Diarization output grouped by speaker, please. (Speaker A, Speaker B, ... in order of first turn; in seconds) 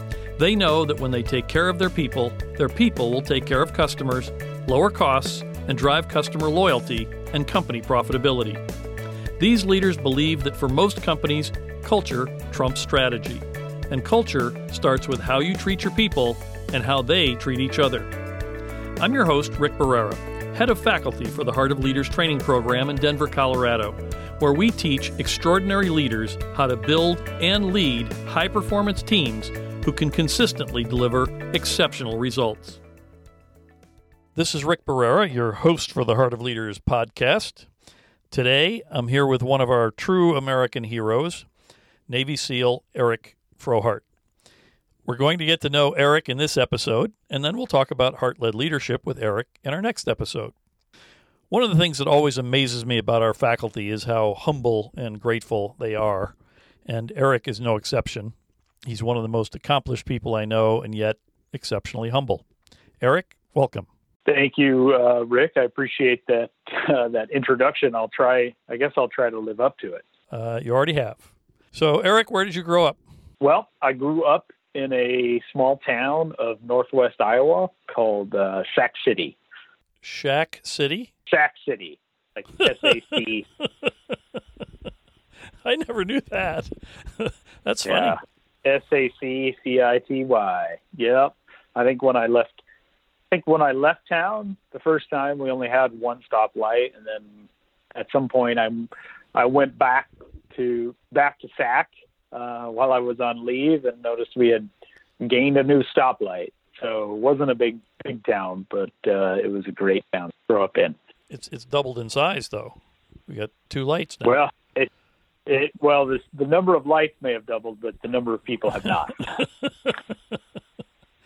Speaker A: 0.4-8.6, 9.4-18.1, 19.0-32.8, 34.4-37.7, 38.3-41.5, 42.1-44.1, 45.1-50.5, 51.5-56.4, 56.9-58.3, 58.9-62.5, 63.0-63.9, 70.3-73.0, 80.0-81.1, 85.6-88.2, 111.3-114.4, 119.3-120.4
Speaker B: 64.3-70.0, 73.4-79.4, 81.3-83.5, 87.9-92.6, 93.3-97.3, 97.9-104.7, 105.2-111.0, 114.2-114.9, 115.5-119.4